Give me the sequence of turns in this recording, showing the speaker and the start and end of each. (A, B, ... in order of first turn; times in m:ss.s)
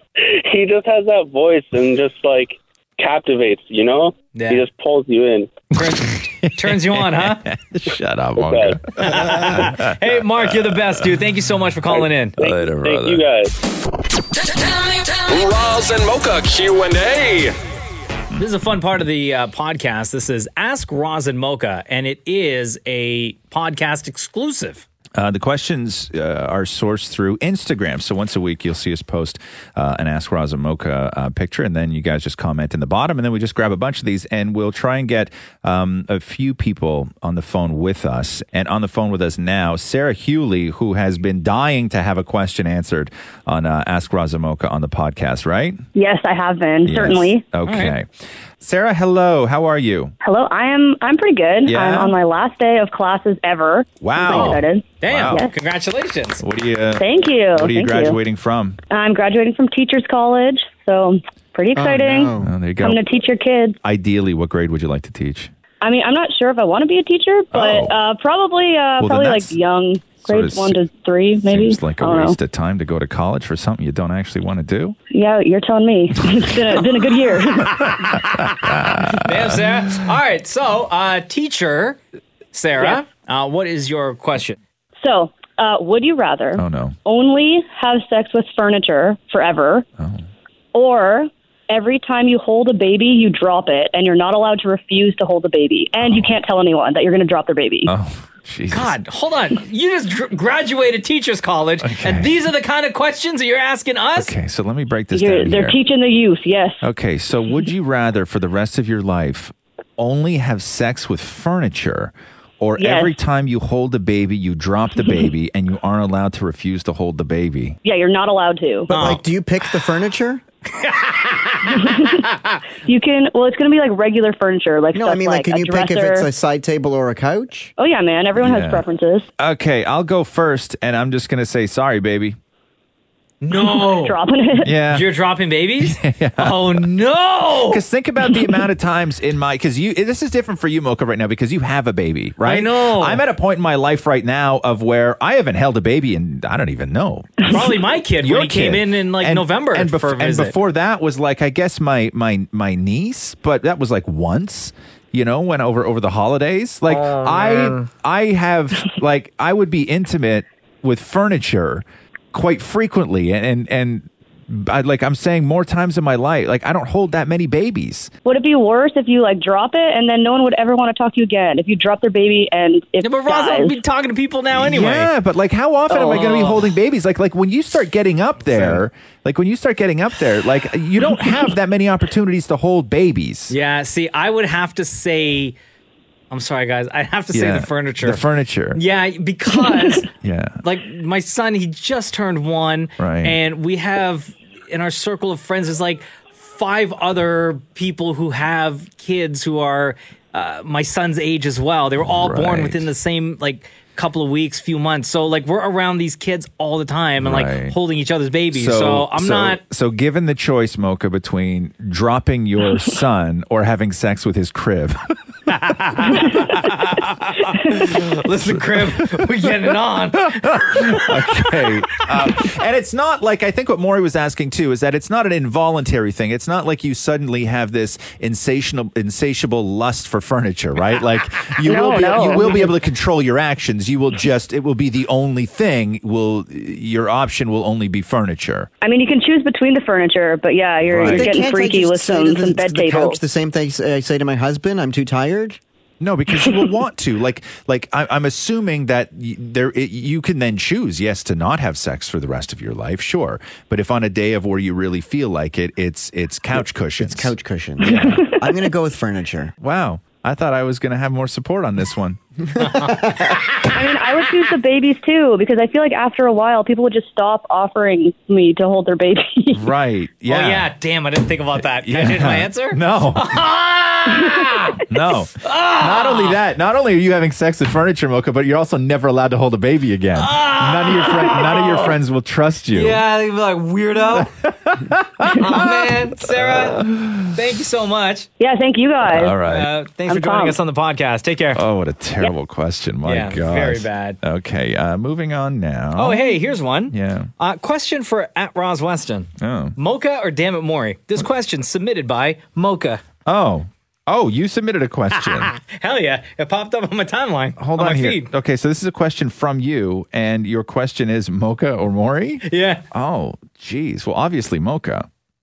0:00.2-0:05.5 A
0:04.3-0:04.6 B
0:05.7-0:07.4 B
0:06.0-0:11.1 C
0:08.4-0:08.8 A
0:09.0-0:12.4 B
0:11.9-0:13.5 A
0:12.4-0:13.2 C
0:14.5-0:17.6 D
0:18.4-0:24.8 B
0:25.2-0:45.8 C
0:45.9-0:47.4 E
0:46.8-0:48.1 C
0:47.6-0:47.9 B
0:48.6-0:50.1 C
0:50.2-0:55.5 E
0:51.6-0:52.2 C
0:54.0-0:55.4 C
0:54.3-0:56.4 B
0:56.4-0:58.8 C
0:57.0-0:58.2 E
0:58.9-1:03.8 E
1:01.7-1:02.5 F
1:02.4-1:03.0 C
1:03.8-1:05.5 C
1:05.8-1:12.4 E
1:07.5-1:07.9 C
1:09.0-1:09.6 C
1:10.2-1:10.8 C
1:11.4-1:15.0 C
1:15.1-1:17.9 E
1:17.8-1:22.0 B
1:18.0-1:20.0 C
1:22.5-1:24.6 B
1:25.0-1:29.8 E
1:26.6-1:27.0 C
1:30.0-1:30.2 C
1:30.7-1:37.9 E
1:36.0-1:36.3 C
1:37.8-1:38.9 C
1:38.7-1:44.3 B
1:41.8-1:42.4 C
1:44.2-1:45.8 C
1:45.1-1:46.8 E
1:46.8-1:57.8 C
1:52.8-1:53.1 E
1:57.8-1:58.9 E
1:58.9-2:00.4 F
1:58.9-1:59.2 B
2:00.7-2:02.6 B
2:01.7-2:02.1 E
2:02.8-2:06.3 E
2:04.9-2:07.7 F
2:07.8-2:09.2 E
2:08.4-2:08.8 C
2:09.4-2:12.4 C
2:13.4-2:14.2 B
2:13.7-2:14.7 E
2:14.6-2:15.0 C
2:14.9-2:17.8 B
2:15.8-2:16.8 C
2:17.7-2:27.6 C
2:22.4-2:23.2 B
2:27.5-2:30.5 B
2:28.2-2:48.1 C
2:36.9-2:37.8 B
2:48.2-2:53.7 E
2:53.0-2:55.1 B
2:54.5-3:03.5 C
2:55.9-2:56.7 B
2:58.5-2:58.8 B
3:03.5-3:05.6 B
3:06.3-3:08.2 B
3:07.3-3:08.8 C
3:08.7-3:10.0 B
3:10.2-3:10.6 C
3:10.6-3:29.6 B
3:13.0-3:13.4 C
3:22.1-3:22.8 C
3:27.2-3:27.8 C
3:28.5-3:35.0 C
3:35.5-3:37.1 B
3:36.0-3:36.3 C
3:37.7-3:41.1 B
3:38.5-3:39.2 C
3:40.4-3:58.7 C
3:51.6-3:52.7 E
3:58.8-4:03.2 E
4:00.8-4:01.4 C
4:01.0-4:05.6 F
4:06.0-4:18.2 C
4:17.0-4:19.5 F
4:19.6-4:22.2 C
4:22.6-4:23.2 B
4:22.7-4:23.3 F
4:23.7-4:29.7 E
4:29.5-4:30.7 C
4:30.3-4:34.8 B
4:31.8-4:33.3 C
4:34.9-4:43.0 C
4:35.4-4:36.4 B
4:40.2-4:41.9 B
4:42.7-4:44.3 B
4:44.2-4:47.3 C
4:45.3-4:48.3 B
4:48.4-4:49.4 E
4:49.0-4:49.7 C
4:49.4-4:51.6 B
4:50.1-4:50.6 E
4:51.6-4:56.3 C
4:53.0-4:54.2 B
4:56.0-5:03.0 B
4:56.9-4:57.3 C
4:59.4-4:59.7 C
5:03.2-5:05.5 C
5:05.2-5:08.3 B
5:07.6-5:15.1 C
5:12.5-5:12.8 B